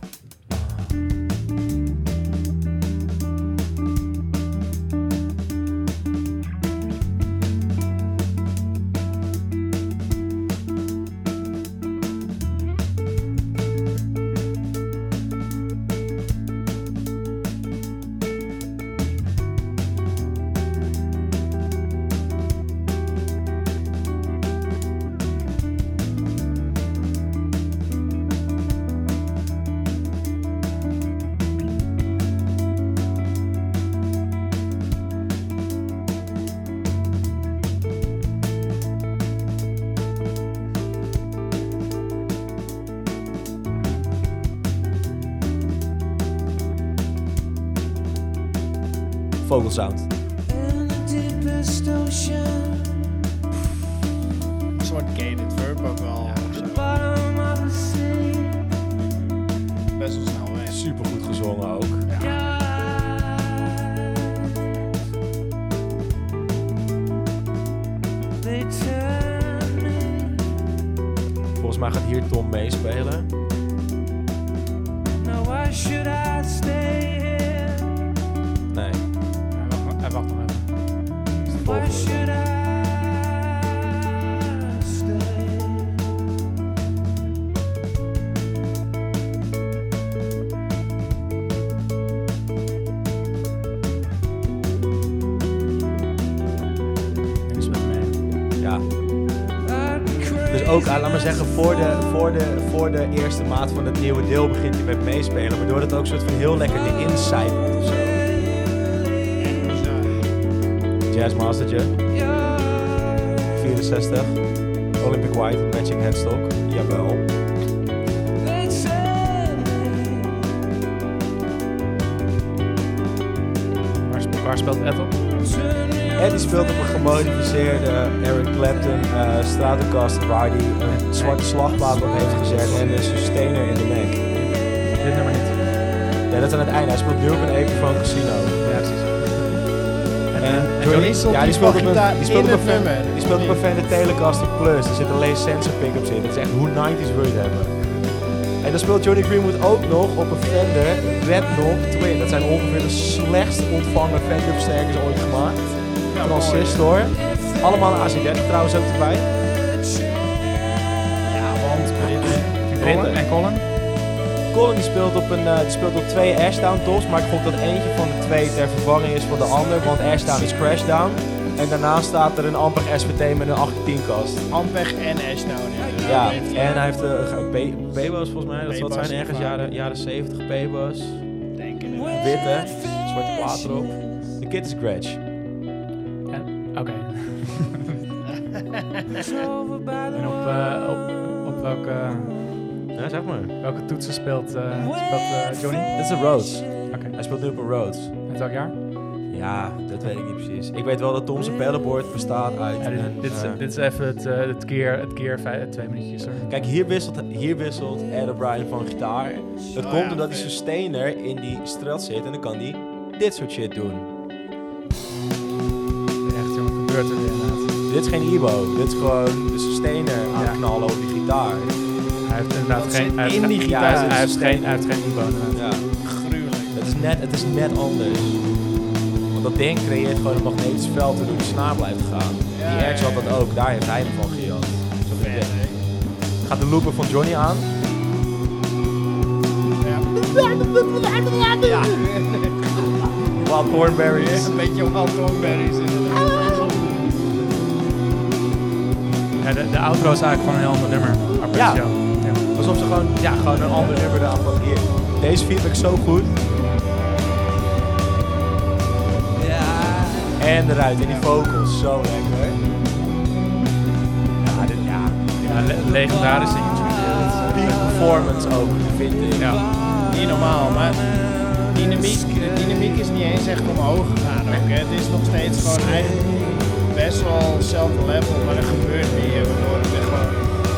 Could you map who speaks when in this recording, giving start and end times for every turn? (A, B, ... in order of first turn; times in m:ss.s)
0:00.5-0:01.0 A
0:49.4-0:50.1 A
0:50.5-0:53.1 B
0:54.8-0:56.9 C
0:56.2-0:58.8 B
1:00.0-1:00.8 C
1:00.7-1:02.1 A
1:02.1-1:02.3 C
1:02.2-1:04.8 B
1:08.4-1:10.5 B
1:11.5-1:13.3 A
1:15.2-1:18.1 B
1:18.7-1:19.0 A
1:19.5-1:20.7 D
1:21.5-1:26.1 B
1:21.5-1:22.4 A
1:37.5-1:38.2 D
1:38.6-1:38.8 A
1:39.7-1:41.1 B
1:40.5-1:48.2 A
1:49.4-1:50.3 C
1:51.1-1:51.9 A
1:52.3-1:53.2 B
1:53.5-1:54.4 A
1:55.0-1:57.3 A
1:58.4-2:00.5 B
2:04.1-2:05.1 D
2:05.6-2:06.0 B
2:06.2-2:14.2 A
2:10.9-2:13.0 D
2:14.3-2:15.6 D
2:16.3-2:18.6 A
2:18.6-2:19.7 D
2:20.3-2:21.3 D
2:20.4-2:28.0 A
2:20.8-2:23.6 C
2:28.6-2:39.3 A
2:36.1-2:36.9 C
2:41.2-2:42.7 C
2:42.7-2:43.6 D
2:42.8-2:43.2 A
2:44.5-2:54.5 A
2:54.5-2:56.8 C
2:56.0-3:01.2 A
2:58.7-2:59.8 C
3:01.5-3:02.6 C
3:02.0-3:04.4 B
3:02.2-3:05.2 A
3:06.3-3:08.0 D
3:08.3-3:09.2 C
3:09.6-3:10.2 B
3:10.1-3:12.6 D
3:12.9-3:13.5 A
3:13.6-3:16.1 D
3:16.0-3:18.1 A
3:16.9-3:17.2 D
3:18.3-3:18.7 D
3:19.3-3:23.6 A
3:22.8-3:26.6 D
3:26.5-3:34.1 A
3:29.8-3:30.5 C
3:36.2-3:37.8 D
3:37.8-3:41.8 A
3:40.3-3:40.6 D
3:42.2-3:45.6 D
3:42.7-3:44.2 C
3:43.6-3:44.8 A
3:45.5-3:45.8 A
3:46.0-3:46.8 C
3:46.7-3:48.4 A
3:49.3-3:55.6 A
3:52.5-3:53.4 C
3:55.2-3:55.8 C
3:56.4-3:57.7 A
3:59.8-4:02.9 C
4:01.6-4:02.0 A
4:03.4-4:04.6 A
4:04.0-4:07.0 C
4:09.4-4:12.4 D
4:11.5-4:16.4 A
4:19.5-4:20.3 B
4:20.4-4:22.6 A
4:21.0-4:21.3 C
4:24.4-4:28.1 D
4:24.5-4:26.0 A
4:27.5-4:29.6 A
4:29.4-4:29.6 D
4:30.1-4:31.1 C
4:31.6-4:36.2 C
4:36.2-4:36.6 A
4:36.8-4:40.4 C